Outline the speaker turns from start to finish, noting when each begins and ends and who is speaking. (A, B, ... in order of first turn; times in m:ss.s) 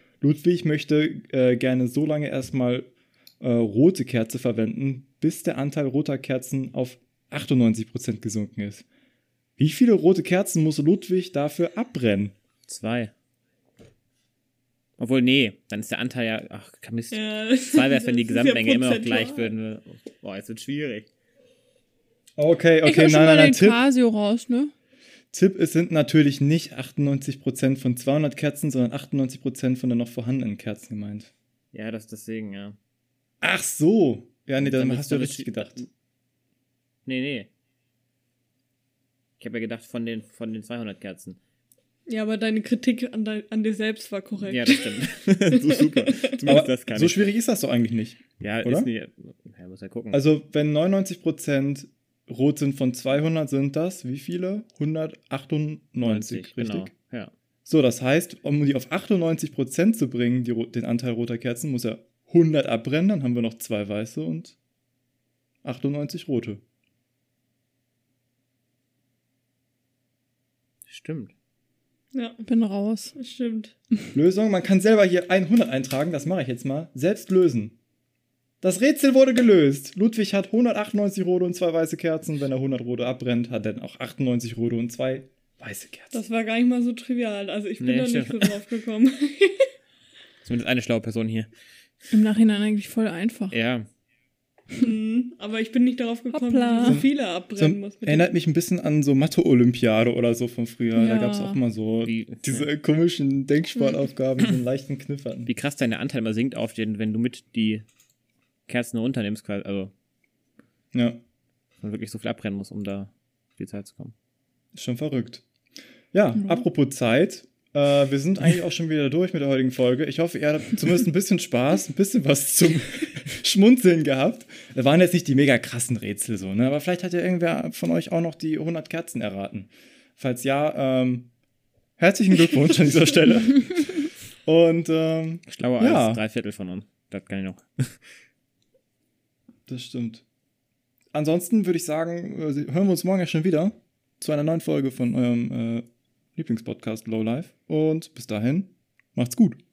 0:00.2-0:02.9 A
0:03.4-0:08.8 A
0:09.6-0:12.3 A
0:12.7-0:13.1 B
0:15.0-0:21.1 B
0:17.1-0:19.5 C
0:22.4-0:23.8 A
0:22.8-0:24.7 D
0:25.3-0:31.3 A
0:31.7-0:32.8 B
0:33.4-0:35.9 A
0:34.6-0:35.9 B
0:37.1-0:37.5 B
0:39.4-0:41.4 B
0:42.1-0:46.5 C
0:44.4-0:47.3 B
0:46.4-0:48.9 A
0:48.4-0:50.3 B
0:50.1-0:56.9 A
0:56.0-0:57.3 B
0:57.7-1:04.6 A
1:05.6-1:06.6 A
1:10.9-1:11.3 B
1:12.1-1:12.4 C
1:12.4-1:13.1 D
1:13.1-1:13.7 C
1:14.1-1:17.8 A
1:18.6-1:26.2 A
1:26.1-1:29.7 C
1:27.8-1:28.6 B
1:30.4-1:31.5 B
1:32.1-1:33.6 D
1:33.5-1:33.9 B
1:34.8-1:38.3 C
1:36.3-1:36.9 D
1:36.8-1:45.5 A
1:41.0-1:41.6 D
1:42.0-1:42.7 B
1:45.5-1:47.8 B
1:48.7-1:49.9 B
1:51.8-1:54.1 B
1:54.7-1:55.4 A
1:56.1-2:11.3 A
2:12.0-2:16.2 A
2:15.5-2:18.0 B
2:19.7-2:20.2 A
2:21.1-2:25.8 A
2:26.4-2:29.6 A